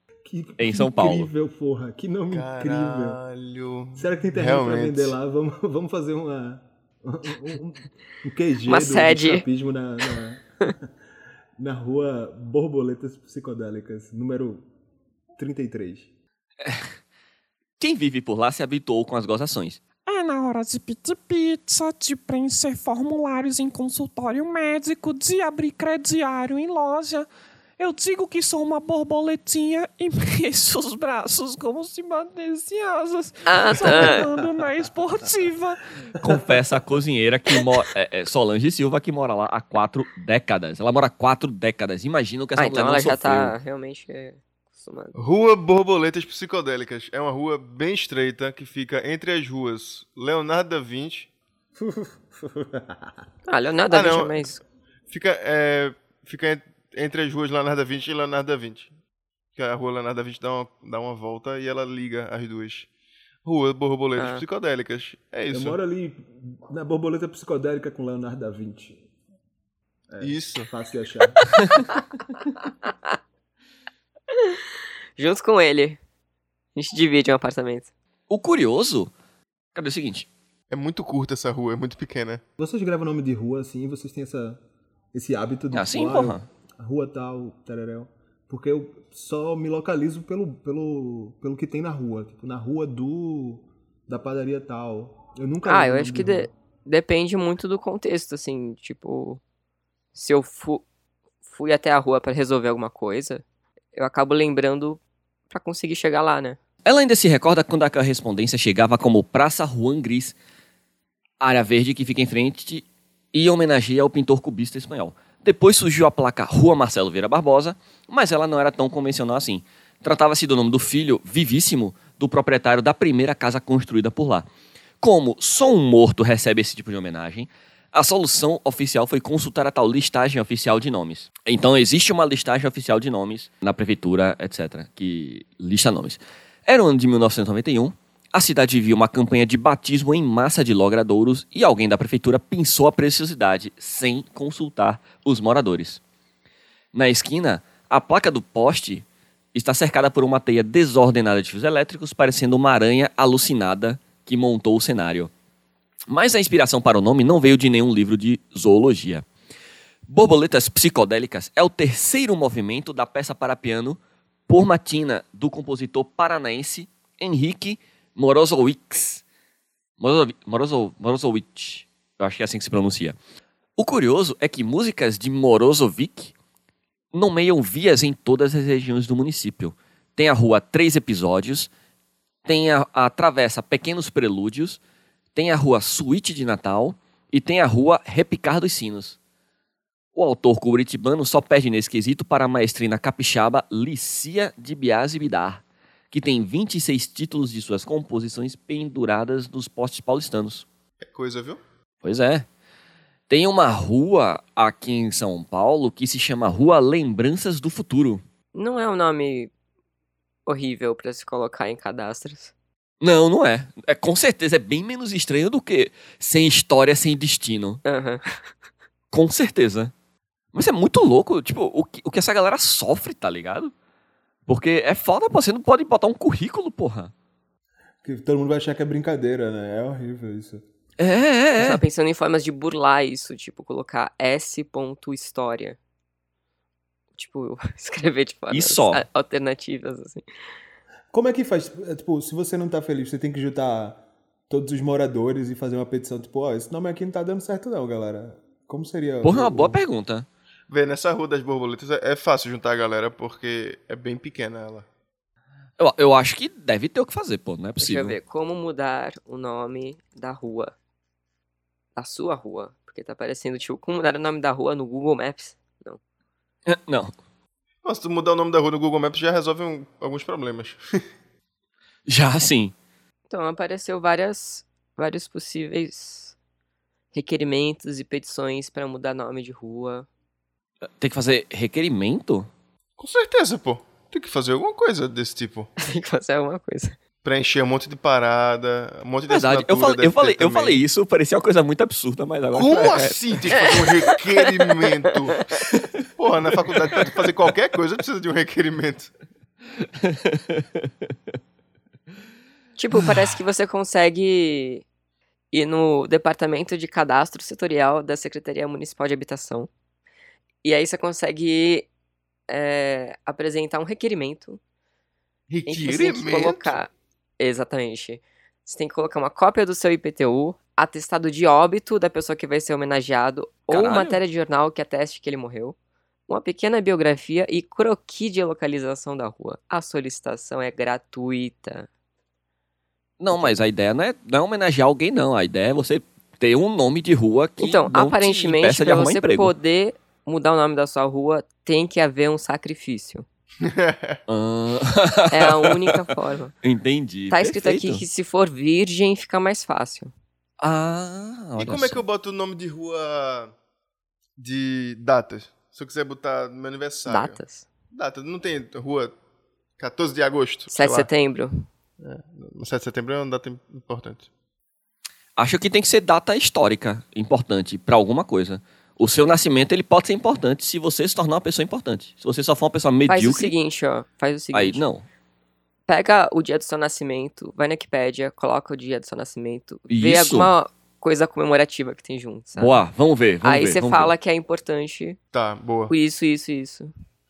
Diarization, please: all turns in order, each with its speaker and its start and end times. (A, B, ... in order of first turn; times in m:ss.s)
0:00.2-0:03.2 A
0:00.6-0:01.3 B
0:02.3-0:05.1 C
0:04.0-0:10.7 A
0:08.7-0:09.4 D
0:11.6-0:14.6 A
0:15.4-0:16.1 A
0:16.6-0:16.9 B
0:17.8-0:19.8 B
0:20.1-0:27.3 E
0:27.8-0:35.8 E
0:33.5-0:34.3 D
0:33.9-0:34.5 A
0:36.2-0:43.6 B
0:42.6-0:45.1 D
0:45.2-0:51.3 C
0:51.8-0:53.1 A
0:53.5-0:54.6 D
0:53.9-0:54.4 C
0:55.1-0:58.9 C
0:59.6-1:02.9 C
1:03.4-1:05.8 C
1:04.2-1:04.4 D
1:05.5-1:09.0 A
1:10.1-1:11.4 A
1:10.2-1:10.7 C
1:14.3-1:14.6 D
1:15.2-1:16.0 D
1:16.8-1:17.9 D
1:18.3-1:19.1 B
1:19.7-1:20.3 B
1:20.7-1:22.4 C
1:22.6-1:24.6 A
1:25.1-1:36.5 A
1:25.7-1:26.5 B
1:35.6-1:39.4 D
1:40.1-1:40.8 D
1:41.5-1:43.4 D
1:44.0-1:46.6 D
1:46.8-1:50.4 B
1:51.4-2:04.5 B
2:05.0-2:26.0 B
2:26.9-2:35.3 B
2:36.1-2:39.2 B
2:40.0-2:49.2 B
2:50.0-2:53.2 B
2:53.8-2:56.3 B
2:57.1-3:01.7 B
3:02.4-3:04.8 B
3:05.4-3:09.2 B
3:10.2-3:20.6 B
3:21.0-3:21.6 C
3:22.0-3:22.5 B
3:23.3-3:28.2 B
3:28.5-3:29.5 D
3:30.5-3:32.5 D
3:33.0-3:37.8 B
3:37.8-3:38.2 D
3:39.1-3:39.9 B
3:40.5-3:43.7 B
3:44.5-3:47.1 B
3:48.0-3:50.6 A
3:51.0-3:51.8 B
3:51.6-3:55.8 D
3:57.1-4:00.2 D
3:58.5-3:59.0 B
4:01.1-4:09.8 A
4:09.2-4:10.3 B
4:10.7-4:14.9 C
4:15.8-4:18.2 B
4:17.8-4:20.7 D
4:22.0-4:26.0 D
4:26.7-4:27.2 B
4:27.8-4:30.8 C
4:32.1-4:32.8 B
4:33.3-4:36.4 D
4:37.1-4:40.1 D
4:41.0-4:42.5 B
4:43.0-4:45.7 C
4:45.8-4:47.0 D
4:47.2-4:50.8 C
4:49.3-4:53.7 B
4:52.5-4:55.4 C
4:53.5-4:55.6 D
4:56.2-4:59.1 C
5:00.0-5:00.9 B
5:02.8-5:04.8 D
5:05.5-5:09.7 D
5:10.6-5:11.9 D
5:12.5-5:14.6 D
5:15.5-5:16.8 C
5:15.7-5:25.8 D
5:23.7-5:24.2 B
5:26.3-5:31.9 D
5:33.2-5:39.5 B
5:33.3-5:33.6 D
5:37.6-5:43.2 D
5:43.6-5:44.2 C
5:44.3-5:46.0 B
5:45.3-5:46.5 D
5:46.6-5:48.0 B
5:47.3-5:50.1 D
5:50.6-5:52.0 B
5:51.6-5:53.5 C
5:54.4-5:57.4 C
5:57.1-5:57.7 D
5:57.9-5:59.2 C
5:59.8-6:01.1 C
6:00.7-6:01.7 D
6:02.0-6:04.3 C
6:05.4-6:13.5 B
6:13.1-6:14.8 D
6:14.5-6:15.0 B
6:15.9-6:22.8 D
6:19.9-6:20.5 B
6:22.6-6:24.1 B
6:23.4-6:25.2 D
6:25.3-6:25.9 C
6:25.9-6:26.9 D